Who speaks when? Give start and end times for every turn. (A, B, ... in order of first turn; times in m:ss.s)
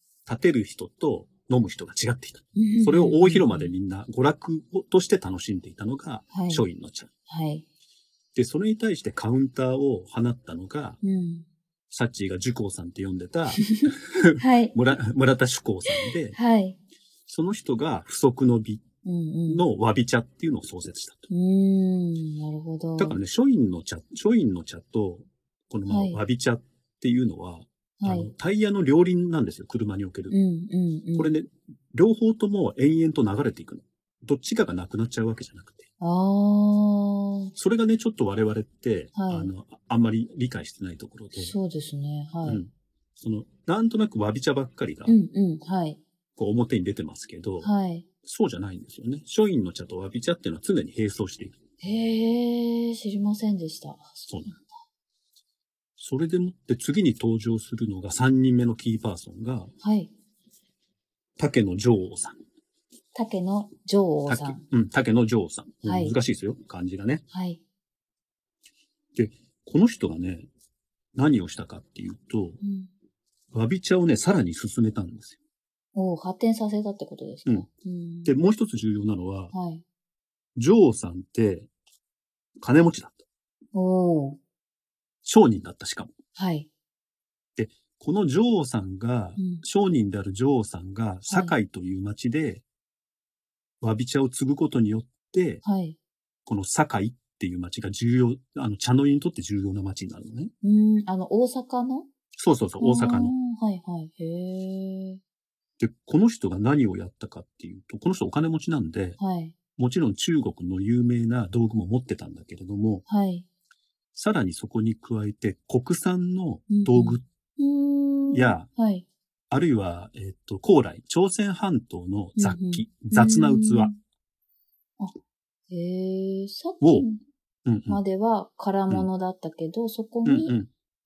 0:00.2-0:07.1 A
0:02.5-0:03.7 B
0:06.3-0:06.6 B
0:07.3-0:07.6 B
0:08.3-0:11.0 A
0:11.0-0:11.4 B
0:11.9-0:16.4 A
0:13.5-0:14.8 B
0:15.9-0:16.8 B
0:17.3-0:18.8 A
0:19.0-0:19.6 B
0:19.5-0:21.3 A
0:21.3-0:23.2 B
0:23.0-0:30.3 A
0:25.9-0:26.2 B
0:28.0-0:28.3 B
0:30.3-0:31.3 B
0:31.2-0:35.9 A
0:36.0-0:37.5 B
0:37.6-0:41.5 A
0:39.1-0:39.5 B
0:41.3-0:42.7 B
0:42.4-0:45.2 A
0:45.1-0:46.0 B
0:46.4-0:47.7 A
0:47.6-0:48.1 B
0:48.2-0:51.6 A
0:51.8-0:54.7 B
0:54.3-0:54.5 A
0:56.0-0:59.7 A
0:59.8-1:00.1 B
1:01.4-1:02.4 A
1:03.1-1:04.6 B
1:04.3-1:07.2 A
1:05.8-1:06.2 B
1:07.3-1:07.6 B
1:09.1-1:10.5 A
1:11.1-1:12.6 A
1:12.6-1:12.9 B
1:13.5-1:15.4 A
1:15.9-1:18.4 B
1:18.2-1:19.5 A
1:19.5-1:19.8 B
1:20.6-1:21.7 A
1:22.6-1:23.2 A
1:23.7-1:24.4 B
1:25.2-1:26.1 A
1:26.4-1:26.7 B
1:27.6-1:32.6 A
1:29.4-1:29.6 B
1:31.3-1:31.5 B
1:33.8-1:35.6 A
1:35.6-1:36.0 B
1:36.4-1:40.5 A
1:40.6-1:42.1 B
1:42.4-1:43.3 A
1:42.8-1:45.2 B
1:45.8-1:49.2 A
1:49.2-1:49.5 B
1:49.8-1:53.0 A
1:53.1-1:53.4 B
1:54.1-1:57.2 A
1:56.7-1:59.0 B
1:58.3-1:58.6 A
1:59.5-2:03.9 A
2:02.4-2:04.0 B
2:05.7-2:07.2 B
2:06.8-2:07.0 A
2:07.6-2:08.0 A
2:07.9-2:10.5 B
2:10.2-2:10.7 A